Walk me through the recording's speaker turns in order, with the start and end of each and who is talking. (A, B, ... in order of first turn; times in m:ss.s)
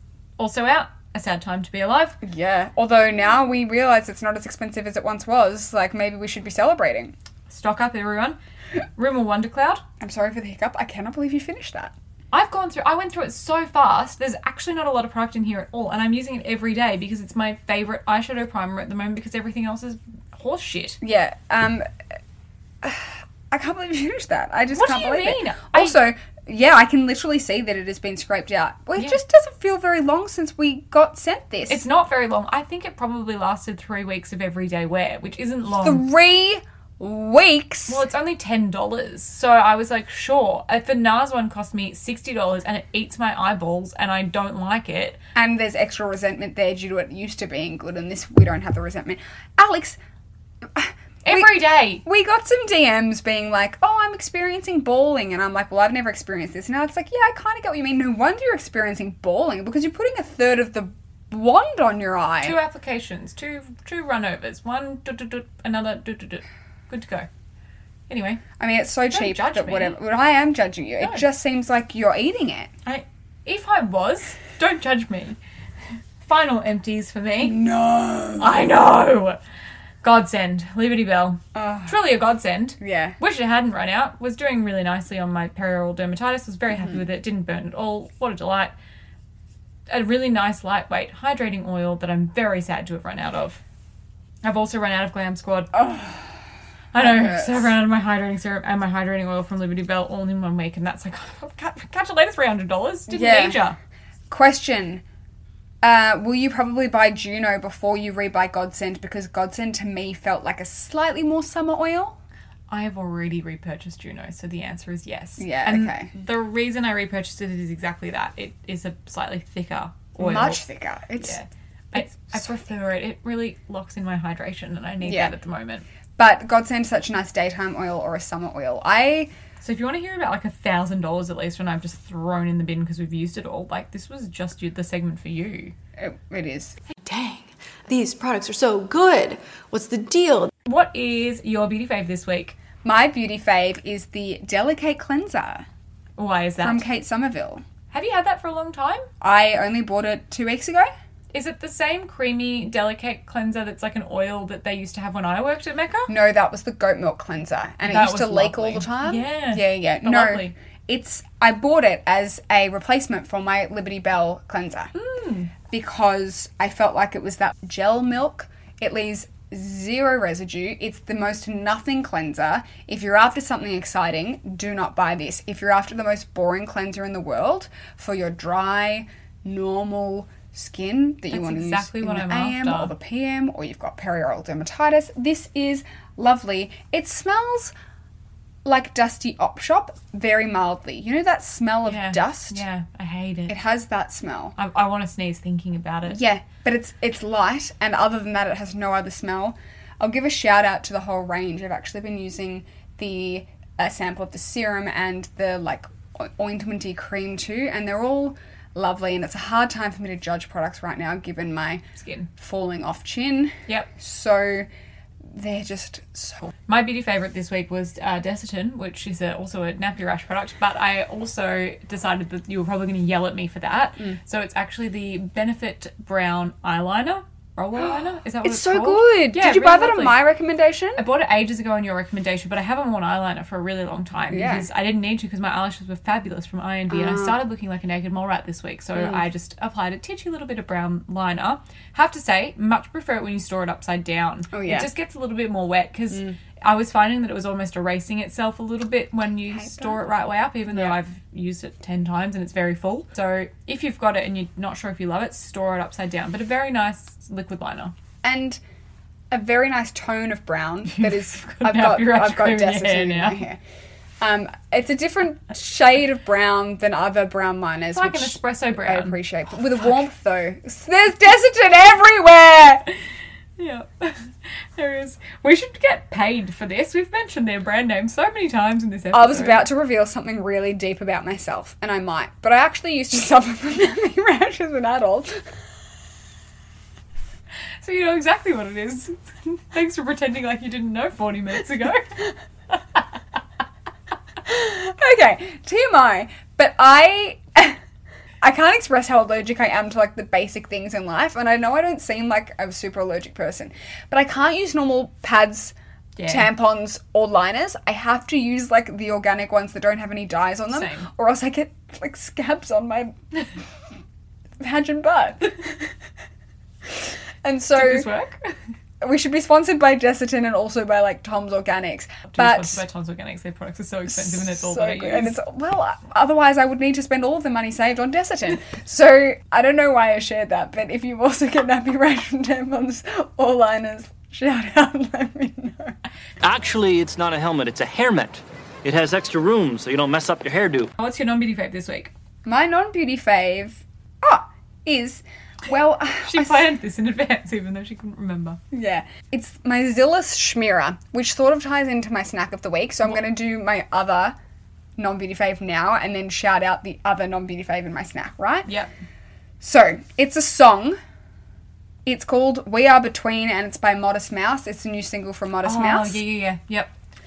0:00.4-0:02.2 A
0:02.2-0:07.1 B
0:07.5-0:08.4 A
0:09.0-0:09.8 A
0:10.0-0:11.9 B
0:12.3-0:21.0 A
0:21.0-0:21.9 B
0:22.8-0:31.8 B
0:24.7-0:26.0 A
0:31.7-0:36.0 A
0:35.8-0:38.0 B
0:37.9-0:45.2 A
0:45.3-0:50.0 B
0:50.7-1:02.6 B
0:51.2-0:52.0 A
1:02.4-1:07.3 A
1:08.1-1:08.4 A
1:08.6-1:12.7 B
1:09.1-1:10.0 A
1:12.8-1:15.4 A
1:16.2-1:17.6 A
1:17.4-1:18.6 B
1:18.4-1:19.4 A
1:20.0-1:28.7 A
1:21.5-1:22.0 B
1:22.8-1:23.2 B
1:26.7-1:27.0 B
1:29.9-1:33.6 A
1:34.4-1:35.7 A
1:35.7-1:36.4 B
1:36.9-1:43.8 A
1:37.0-1:37.7 B
1:43.1-1:43.6 B
1:44.3-1:45.0 B
1:45.8-1:52.2 B
1:52.7-2:00.6 A
1:55.4-1:56.1 B
2:00.2-2:01.4 B
2:01.2-2:05.8 A
2:01.9-2:02.5 B
2:05.0-2:05.3 B
2:06.2-2:09.3 B
2:09.6-2:15.8 A
2:16.0-2:16.8 B
2:17.0-2:17.4 C
2:17.9-2:20.5 C
2:20.6-2:22.6 A
2:22.8-2:25.6 B
2:26.2-2:26.8 A
2:26.6-2:27.6 B
2:27.9-2:29.1 A
2:29.2-2:30.9 B
2:31.3-2:36.1 A
2:36.1-2:44.9 B
2:37.8-2:40.5 A
2:44.9-2:45.5 A
2:45.7-3:07.7 B
3:01.3-3:02.9 A
3:08.6-3:12.6 B
3:11.8-3:13.6 A
3:13.5-3:14.5 B
3:14.6-3:16.2 A
3:16.0-3:31.8 B
3:32.0-3:32.3 A
3:32.4-3:34.7 B
3:35.2-3:36.5 B
3:36.6-3:50.2 A
3:47.8-3:51.0 B
3:51.0-4:17.9 A
3:54.3-3:54.7 B
3:56.9-3:57.4 B
3:59.0-3:59.2 B
4:04.5-4:04.9 B
4:06.1-4:06.4 B
4:09.5-4:10.0 B
4:18.2-4:18.6 B
4:19.3-4:23.6 B
4:20.9-4:23.4 A
4:24.2-4:32.9 B
4:27.9-4:29.2 A
4:33.6-4:39.6 A
4:39.1-4:45.5 B
4:47.8-4:52.3 A
4:54.4-4:57.8 B
4:58.4-5:05.7 B
5:06.2-5:06.5 A
5:06.3-5:13.1 B
5:10.7-5:11.1 A
5:14.6-5:15.8 B
5:17.4-5:18.1 B
5:17.7-5:18.5 A
5:19.0-5:22.8 B
5:22.3-5:25.4 A
5:24.1-5:36.0 B
5:36.4-5:40.9 D
5:41.0-5:42.1 A
5:42.4-5:46.7 B
5:46.2-5:48.6 A
5:48.7-5:54.4 B
5:55.0-5:58.7 B
5:58.6-5:58.9 A
5:59.6-6:01.0 B
6:02.0-6:06.2 B
6:05.6-6:06.9 A